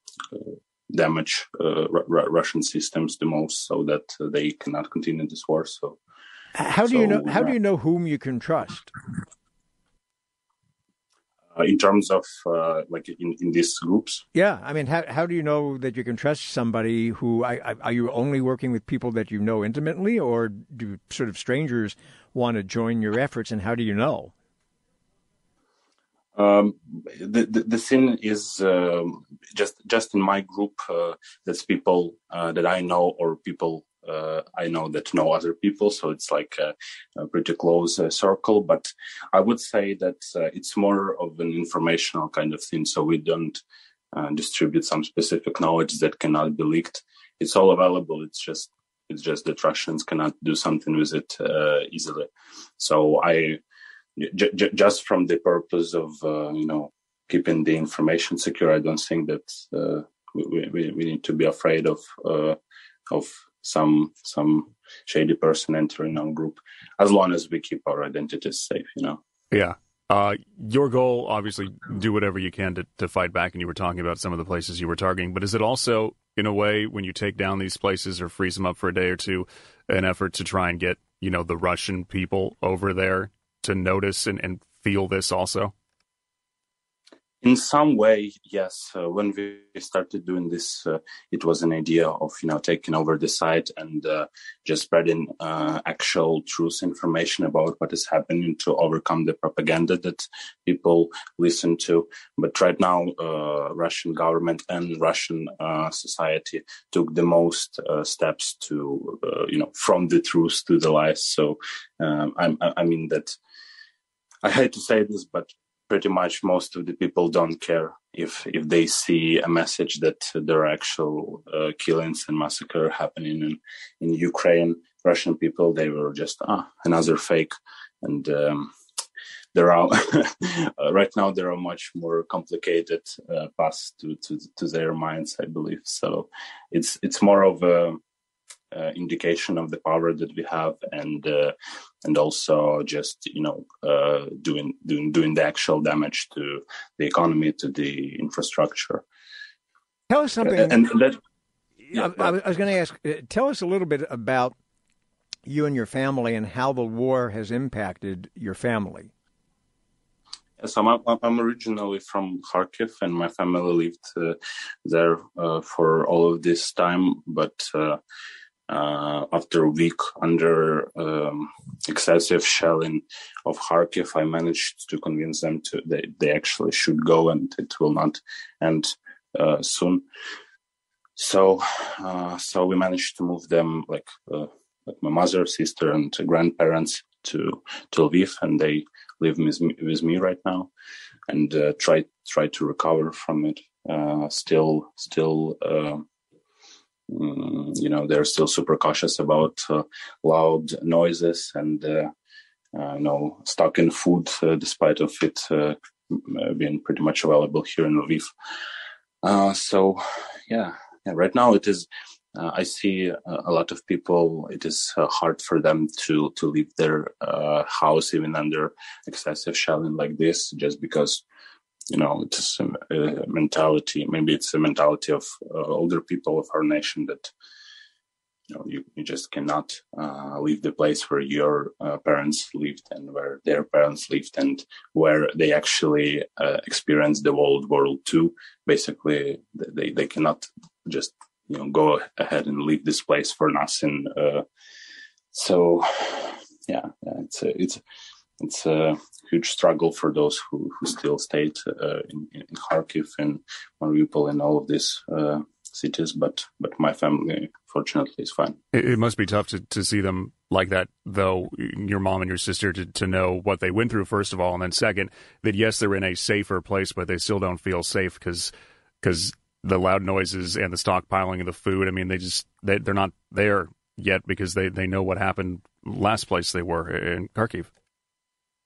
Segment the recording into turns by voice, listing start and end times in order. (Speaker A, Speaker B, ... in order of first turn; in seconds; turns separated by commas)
Speaker A: 0.3-6.0, Speaker B: 6.5-8.9, Speaker A: 6.9-7.5, Speaker A: 11.6-14.2, Speaker B: 14.3-24.3, Speaker A: 26.4-43.6, Speaker A: 44.1-53.6, Speaker A: 54.2-62.6, Speaker A: 63.1-69.2, Speaker C: 69.5-85.7, Speaker A: 87.4-113.4, Speaker A: 114.4-128.7, Speaker A: 129.5-138.0, Speaker A: 138.7-149.0, Speaker B: 150.1-150.8, Speaker A: 150.4-151.2, Speaker B: 151.9-154.6, Speaker A: 151.9-152.3, Speaker B: 155.5-159.1, Speaker A: 160.6-168.0, Speaker A: 168.7-180.1, Speaker A: 181.2-190.7, Speaker A: 191.3-196.1, Speaker A: 197.1-202.1, Speaker A: 202.7-208.3, Speaker A: 209.2-221.2, Speaker A: 221.9-227.3, Speaker A: 228.5-244.4, Speaker A: 245.3-247.8, Speaker A: 248.4-258.6, Speaker C: 258.7-277.7